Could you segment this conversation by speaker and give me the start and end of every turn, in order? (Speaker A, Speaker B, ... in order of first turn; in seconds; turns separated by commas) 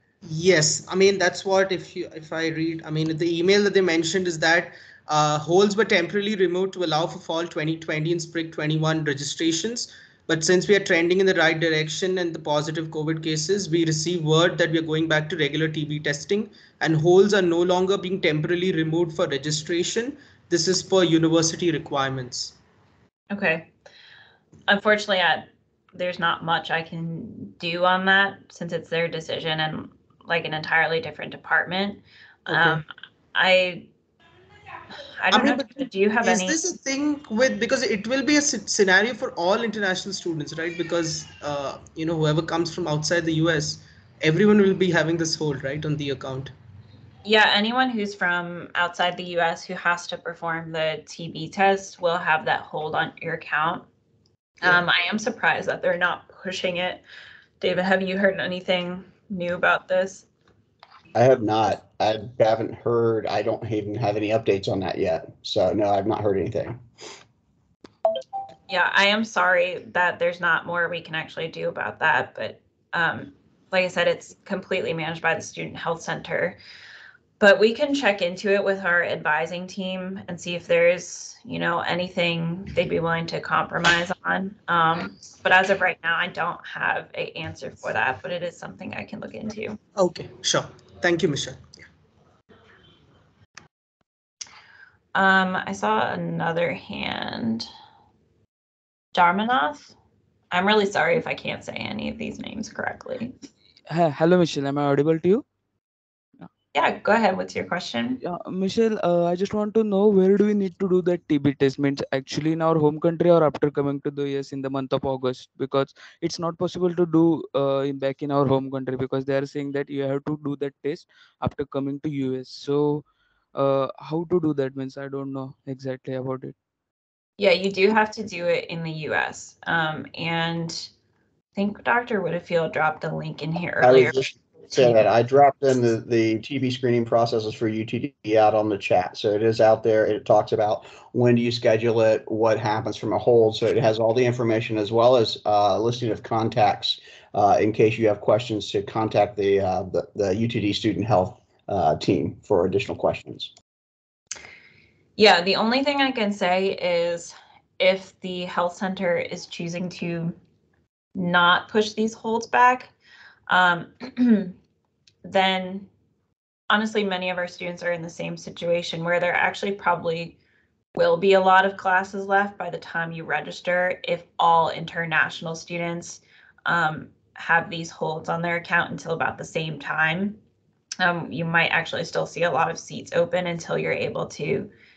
Speaker A: 0.2-22.6, Speaker B: 23.3-23.7, Speaker B: 24.7-33.9, Speaker A: 32.5-32.8, Speaker B: 35.1-36.6, Speaker A: 35.3-46.5, Speaker B: 47.2-53.9, Speaker B: 54.6-57.0, Speaker B: 57.6-60.3, Speaker C: 61.1-66.8, Speaker B: 68.7-76.6, Speaker B: 77.4-89.8, Speaker A: 90.0-91.6, Speaker B: 95.1-97.7, Speaker B: 99.1-99.9, Speaker B: 100.5-103.3, Speaker D: 103.9-105.4, Speaker B: 106.7-108.2, Speaker D: 108.2-126.5, Speaker B: 127.4-130.9, Speaker B: 131.5-134.8, Speaker C: 133.8-153.5, Speaker B: 155.2-160.3, Speaker B: 161.1-162.9, Speaker B: 163.5-164.5, Speaker B: 165.2-165.9, Speaker B: 166.7-170.4, Speaker B: 170.9-180.4, Speaker B: 181.0-184.7